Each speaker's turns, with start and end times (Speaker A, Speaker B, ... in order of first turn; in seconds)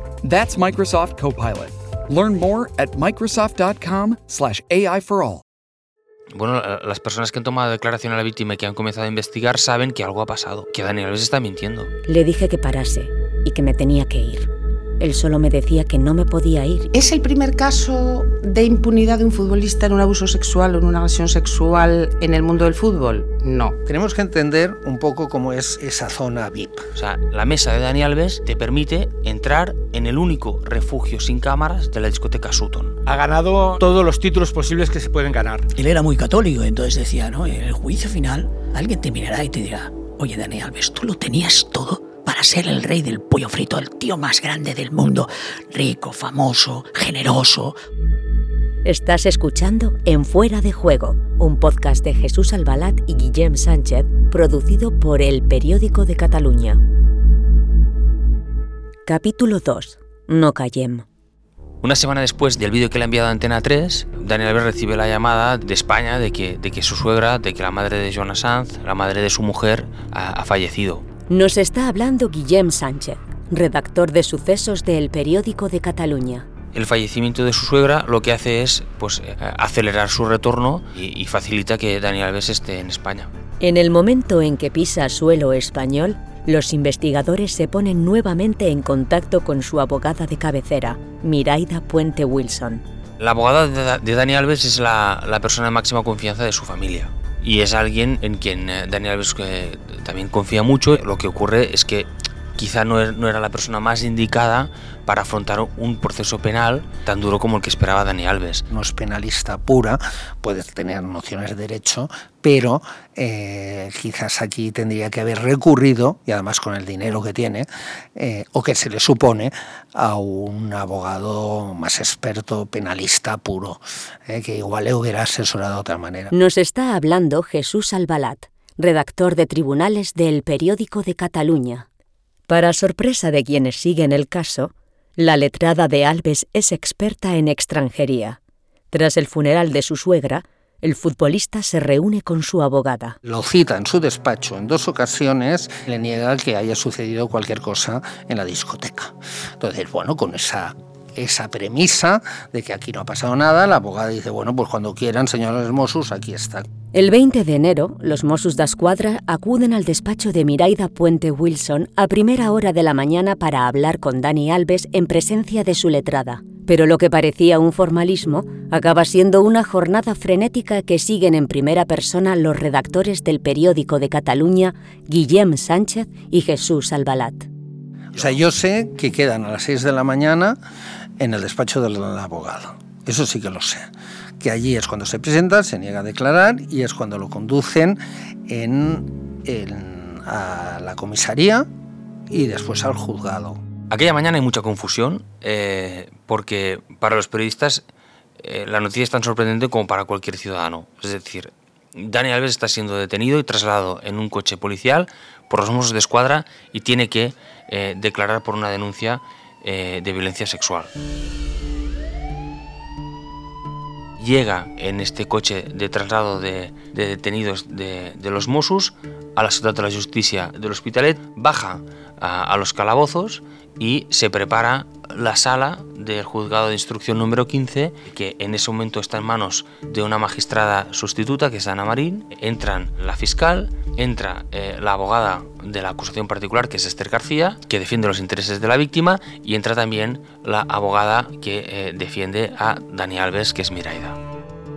Speaker A: 0.2-5.4
Speaker B: 6.3-11.9, 26.9-33.0, 61.8-71.0, 76.7-83.3, 93.2-108.7, 193.9-197.8, 198.4-210.9, 214.2-244.2
Speaker C: 12.1-14.5, 15.0-16.9, 48.9-56.8, 59.1-61.0, 71.3-76.5, 83.6-92.8, 126.3-131.9, 132.5-138.4, 138.9-143.2, 156.9-177.5
Speaker D: 16.9-23.8
Speaker E: 23.9-26.9, 108.7-126.3, 143.2-156.7, 178.1-180.6, 181.2-183.9, 184.4-191.7, 192.3-193.6
Speaker F: 33.1-35.7
Speaker G: 35.8-47.8